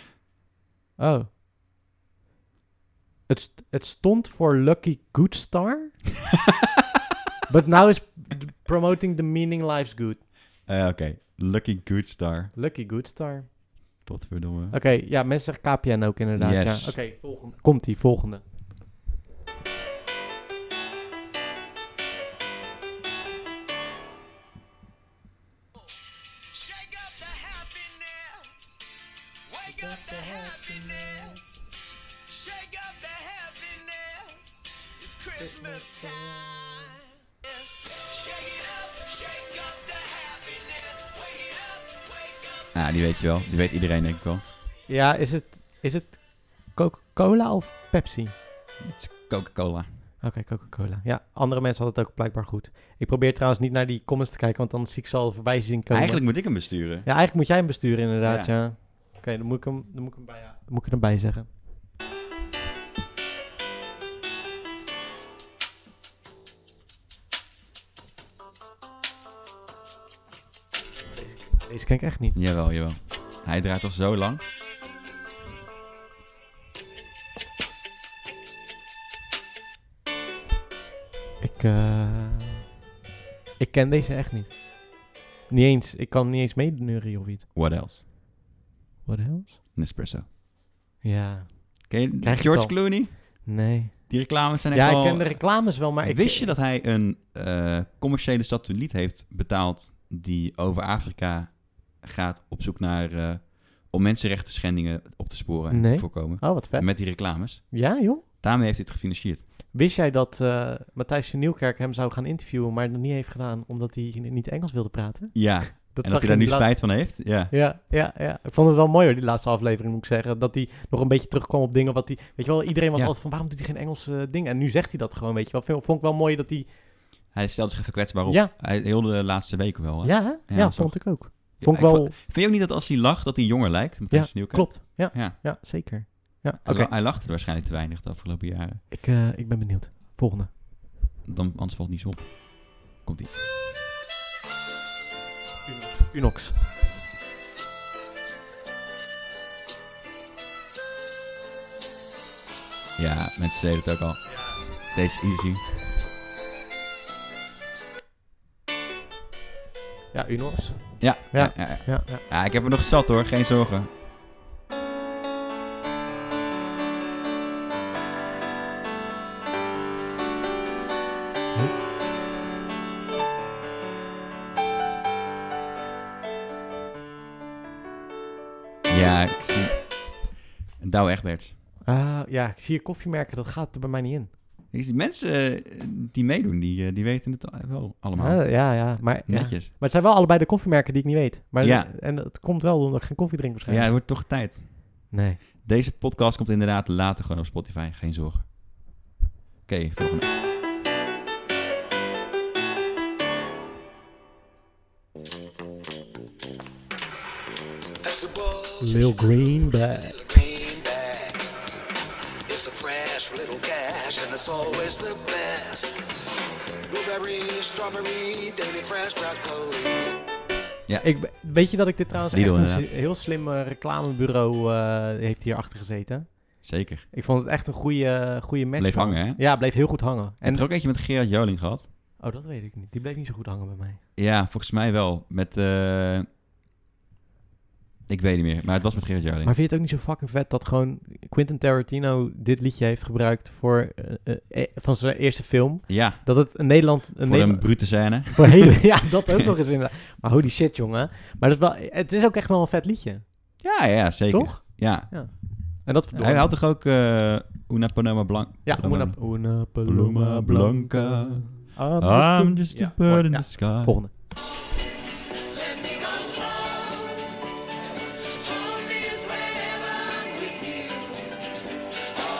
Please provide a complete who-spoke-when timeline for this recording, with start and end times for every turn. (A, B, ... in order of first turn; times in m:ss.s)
0:01.0-0:01.3 A
0:03.3-0:06.0 A
0:07.5-0:10.2 A
0:10.6-0:12.5 B
0:12.5-0:13.5 A
0:14.0-0:14.8 B
0:14.7-0:18.4 A
0:16.4-0:17.0 B
0:26.5-0:28.8 C
0:29.4-0:31.6 C
0:29.6-0:31.4 A
0:32.3-0:42.7 C
0:35.4-0:36.6 A
0:42.7-0:44.4 B
0:44.9-0:48.3 A
0:48.8-0:49.9 B
0:50.2-1:01.5 A
0:55.9-0:57.1 B
0:58.2-0:58.5 B
1:11.1-1:12.4 A
1:12.3-1:14.4 B
1:21.4-1:22.6 A
1:23.6-1:27.4 A
1:27.5-1:28.0 B
1:29.0-1:29.6 A
1:29.7-1:30.2 B
1:31.0-1:36.5 A
1:31.9-1:33.4 B
1:34.1-1:49.5 B
1:45.7-1:48.2 A
1:49.7-2:06.7 A
1:55.3-1:57.5 B
2:07.3-2:15.4 B
2:08.3-2:08.5 A
2:10.0-2:12.1 A
2:14.1-2:16.9 A
2:16.6-2:18.8 B
2:18.9-2:20.5 A
2:21.2-2:23.4 B
2:25.6-2:26.6 A
2:33.0-2:35.7 B
2:34.2-2:35.0 A
2:40.1-2:42.2 A
2:41.0-2:43.9 B
2:58.9-3:01.5 B
3:01.8-3:04.3 A
3:04.7-3:09.7 B
3:08.2-3:13.9 A
3:11.6-3:11.9 B
3:13.7-3:15.1 B
3:15.1-3:15.4 A
3:15.6-3:18.8 B
3:19.7-3:20.3 B
3:28.0-3:31.5 C
3:28.8-3:30.2 A
3:32.5-3:36.0 C
3:36.9-3:40.1 C
3:41.0-3:50.7 A
3:42.3-3:42.9 B
3:46.6-3:47.0 B
3:48.8-3:49.4 B
3:50.4-3:51.9 B
3:52.2-3:54.0 A
3:54.2-3:56.3 B
3:58.1-3:59.5 B
3:59.4-4:13.6 A
4:05.9-4:09.0 B
4:13.6-4:24.0 B
4:14.3-4:16.6 A
4:18.6-4:24.1 A
4:25.8-4:26.6 C
4:28.6-4:31.0 C